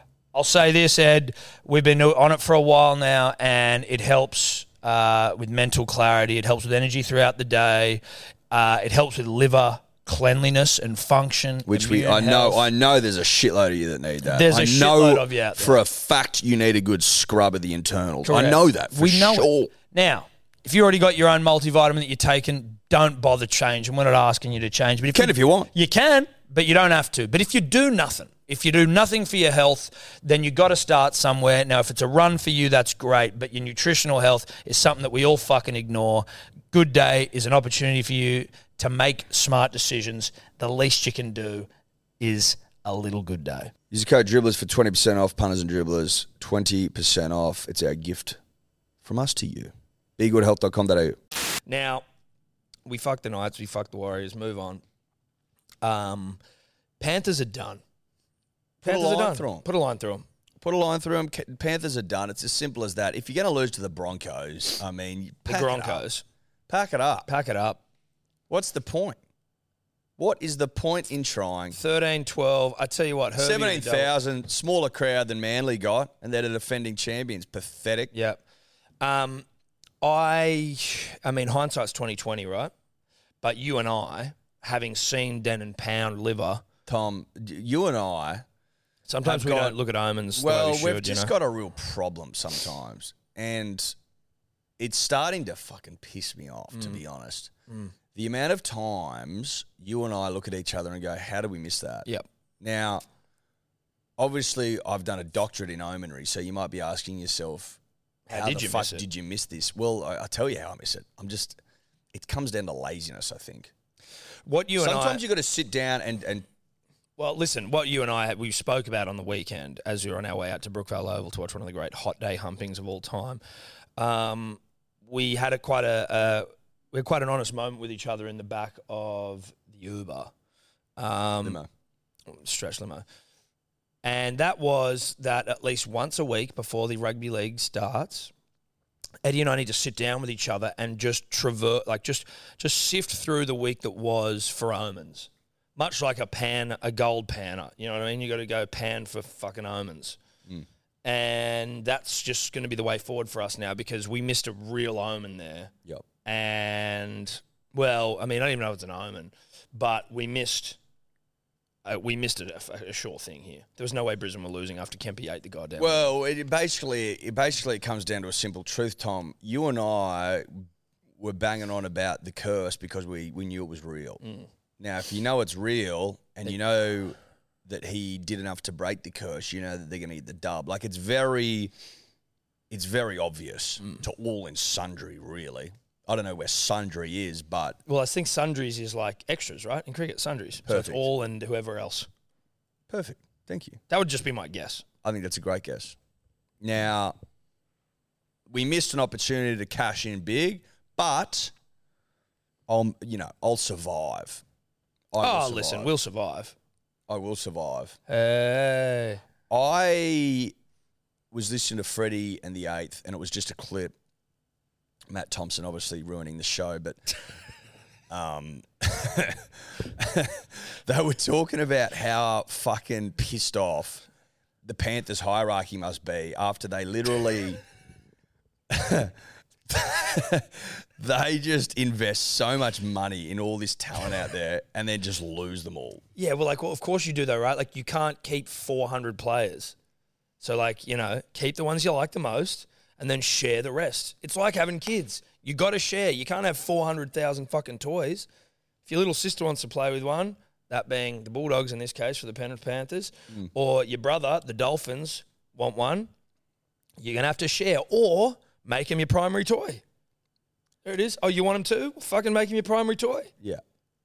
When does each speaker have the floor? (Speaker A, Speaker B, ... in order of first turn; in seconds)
Speaker A: 0.3-12.7, 14.2-15.8, 18.2-41.7, 42.2-43.7, 51.6-52.0, 52.9-54.8, 55.8-56.4, 57.0-57.8, 58.8-60.2, 65.5-66.2, 67.3-67.8, 71.7-74.1, 78.1-78.4, 79.0-79.4, 80.0-82.7, 83.4-86.6, 89.1-91.3, 96.7-97.0, 97.7-97.9, 108.3-109.0, 114.5-115.2, 117.2-123.4, 124.0-130.3, 131.0-131.6, 132.3-133.0, 134.0-138.3, 139.2-150.2, 151.0-155.7, 156.2-160.8, 161.8-166.1, 174.2-174.5, 187.8-192.1, 193.9-194.8, 205.2-206.6, 208.1-209.2, 236.2-239.7, 240.4-248.3, 248.8-256.1, 257.0-259.8, 260.8-263.3
Speaker B: 11.7-19.7, 25.1-25.7, 43.9-48.4, 49.0-51.2, 58.8-59.6, 60.6-66.0, 66.7-67.3, 68.5-69.2, 70.2-71.8, 73.4-78.1, 86.8-88.4, 89.2-89.8, 90.3-93.9, 94.8-97.5, 98.1-102.1, 102.6-103.0, 104.2-107.8, 108.3-111.6, 112.1-113.7, 114.8-116.5, 131.4-131.7, 165.8-170.7, 171.2-174.2, 174.8-181.7, 182.7-187.8, 190.7-191.0, 192.9-193.8, 195.0-195.9, 196.6-197.1, 198.5-201.5, 202.7-204.4, 205.1-205.9, 207.1-208.0, 209.5-210.5, 211.3-213.9, 215.1-217.0, 218.1-224.1, 224.6-227.6, 228.7-229.1, 229.7-236.0